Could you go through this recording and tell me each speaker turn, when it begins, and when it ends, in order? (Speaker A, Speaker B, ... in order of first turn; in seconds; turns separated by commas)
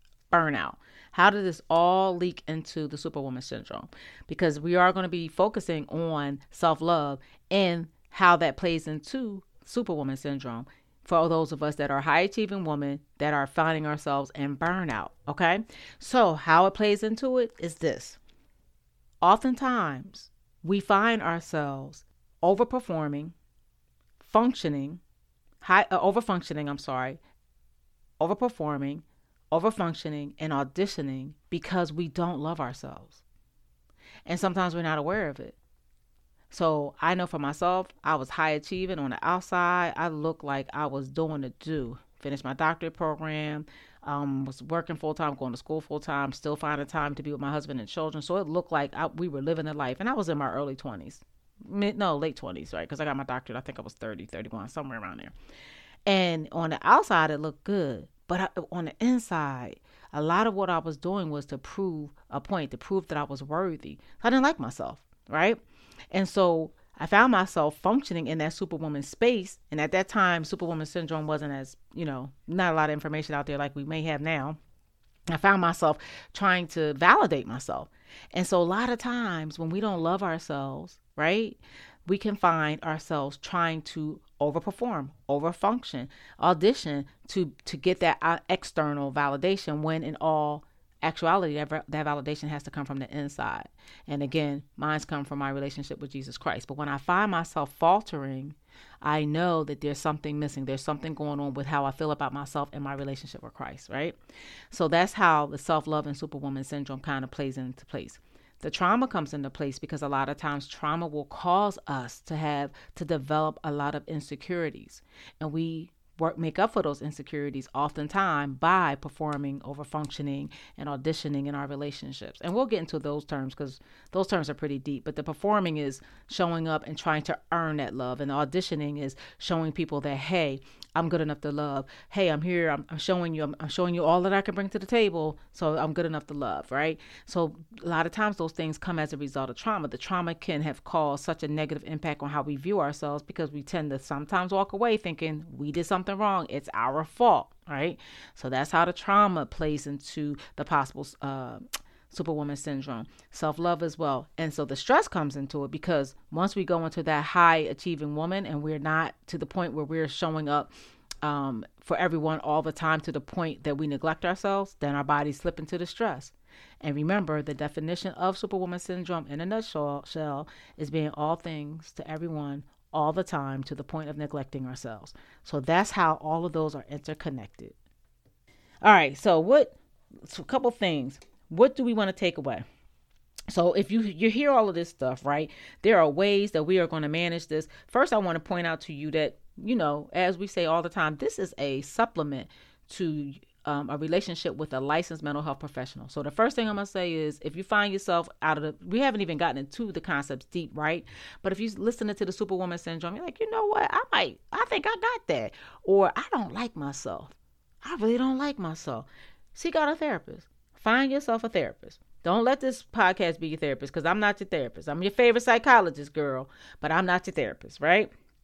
Speaker A: 0.3-18.2, Speaker A: 19.2-23.3, Speaker A: 24.2-25.0, Speaker A: 25.6-27.2, Speaker A: 28.2-33.2, Speaker A: 34.3-35.6, Speaker A: 36.5-55.3, Speaker A: 56.1-65.6, Speaker A: 66.1-74.6, Speaker A: 75.3-104.2, Speaker A: 104.7-160.7, Speaker A: 161.2-177.8, Speaker A: 178.8-182.7, Speaker A: 183.5-218.1